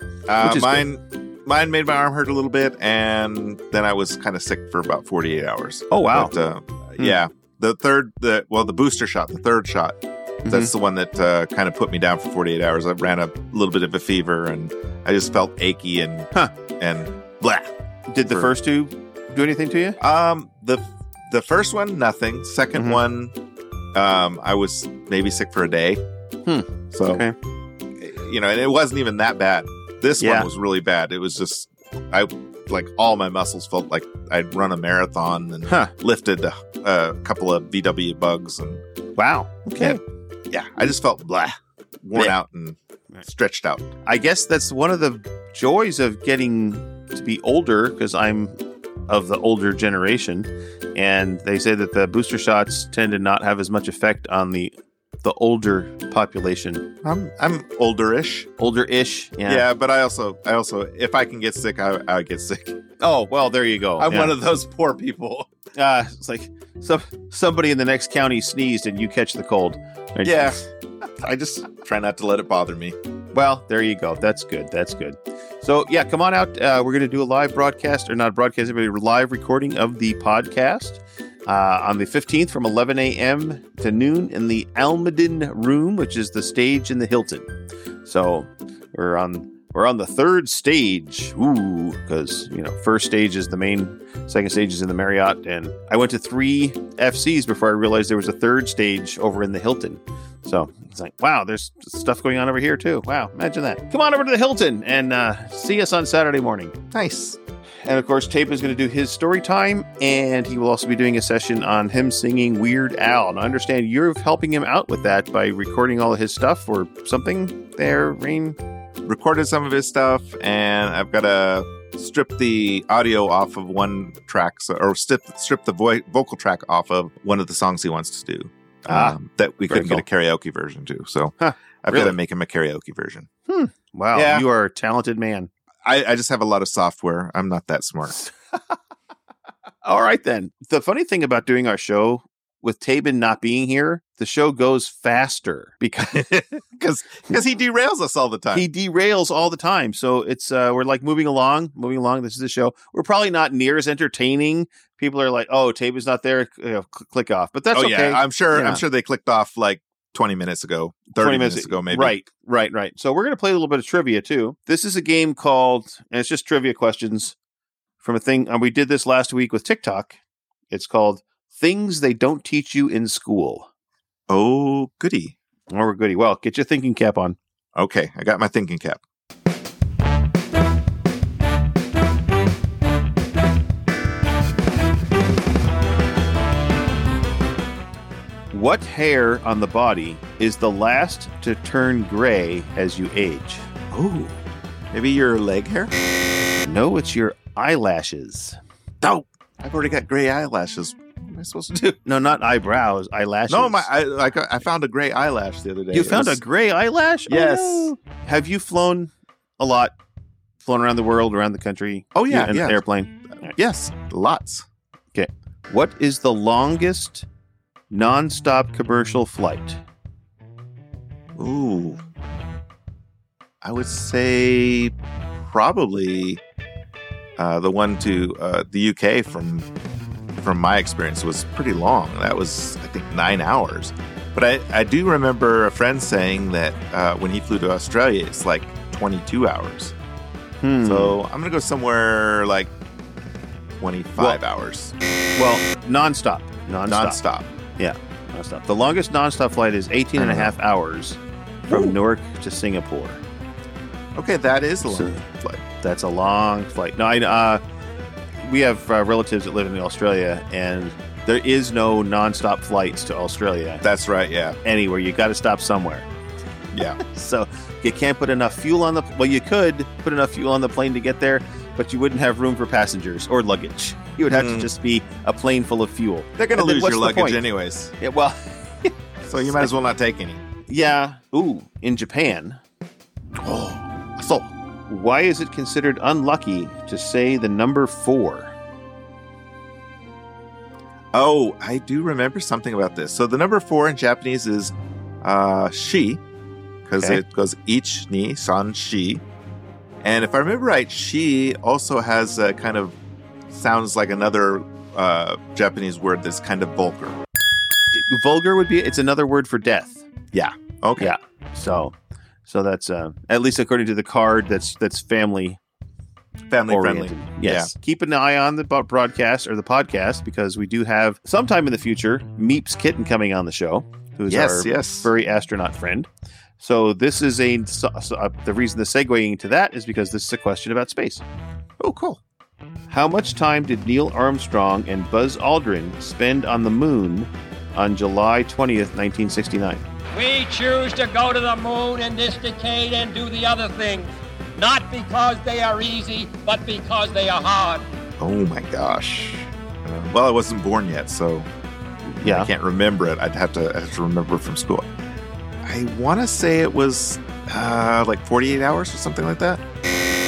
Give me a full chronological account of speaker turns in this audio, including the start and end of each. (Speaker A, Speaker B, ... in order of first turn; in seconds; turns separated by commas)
Speaker A: 0.3-18.5, Speaker B: 0.4-0.8, Speaker B: 5.9-6.3, Speaker B: 10.4-10.7, Speaker B: 18.1-20.0, Speaker A: 20.0-23.3, Speaker B: 22.7-23.0, Speaker A: 23.9-26.0, Speaker B: 26.4-27.3, Speaker A: 26.9-27.2, Speaker A: 28.0-38.8, Speaker B: 30.2-30.5, Speaker B: 35.7-35.9, Speaker B: 39.1-40.0, Speaker A: 39.8-43.9, Speaker B: 44.0-48.5, Speaker B: 49.1-56.9, Speaker A: 57.0-58.5, Speaker B: 58.6-59.6, Speaker A: 59.4-62.8, Speaker B: 63.0-64.4, Speaker A: 64.0-65.5, Speaker B: 65.7-70.6, Speaker A: 70.2-70.6, Speaker A: 71.1-73.0, Speaker B: 73.3-87.5, Speaker B: 88.0-106.8, Speaker A: 106.9-107.4, Speaker B: 107.8-118.6, Speaker A: 119.0-133.3, Speaker B: 128.9-130.0, Speaker B: 131.4-132.2, Speaker B: 133.5-135.5, Speaker A: 134.1-134.5, Speaker A: 135.8-138.2, Speaker B: 139.8-146.3, Speaker A: 146.0-148.7, Speaker B: 148.5-158.8, Speaker A: 157.7-162.2, Speaker B: 161.2-167.3, Speaker B: 168.0-170.2, Speaker B: 170.7-173.7, Speaker A: 174.3-175.3, Speaker B: 175.7-177.4, Speaker A: 177.8-179.0, Speaker B: 188.5-193.7, Speaker A: 193.9-194.3, Speaker A: 194.9-195.9, Speaker B: 196.6-198.6, Speaker A: 199.0-202.0, Speaker B: 202.0-203.9, Speaker A: 203.5-206.4, Speaker B: 205.9-209.9, Speaker A: 207.3-207.9, Speaker B: 210.6-213.5, Speaker A: 212.1-214.7, Speaker B: 215.1-217.3, Speaker B: 217.9-219.8, Speaker A: 221.3-222.0, Speaker A: 223.6-226.4, Speaker A: 227.4-229.7, Speaker A: 230.4-239.9, Speaker B: 240.6-241.2, Speaker A: 240.8-242.7, Speaker A: 243.8-244.9, Speaker B: 245.3-247.2, Speaker A: 246.9-247.5, Speaker B: 247.8-253.2, Speaker A: 250.2-250.5, Speaker A: 251.7-252.0, Speaker A: 254.1-255.6, Speaker B: 254.8-255.2, Speaker B: 255.8-257.6, Speaker B: 258.4-263.8, Speaker A: 263.8-264.6, Speaker B: 264.6-266.1, Speaker A: 266.7-267.0, Speaker B: 267.0-277.4, Speaker A: 274.3-274.7, Speaker A: 276.4-277.9, Speaker B: 278.0-279.7, Speaker A: 279.2-280.4, Speaker B: 280.7-282.6, Speaker A: 283.4-284.4, Speaker B: 284.4-288.5, Speaker A: 291.1-296.2, Speaker A: 296.9-299.2, Speaker A: 300.0-303.0, Speaker A: 303.5-307.2, Speaker B: 307.9-310.1, Speaker A: 310.3-311.1, Speaker B: 311.0-311.9, Speaker B: 312.5-315.6, Speaker A: 316.5-317.7, Speaker B: 316.7-331.2, Speaker A: 324.3-325.1, Speaker A: 331.8-332.2, Speaker B: 332.9-339.8, Speaker C: 340.1-347.9, Speaker A: 348.2-351.5, Speaker B: 352.1-352.5, Speaker A: 352.2-354.9, Speaker A: 355.6-359.6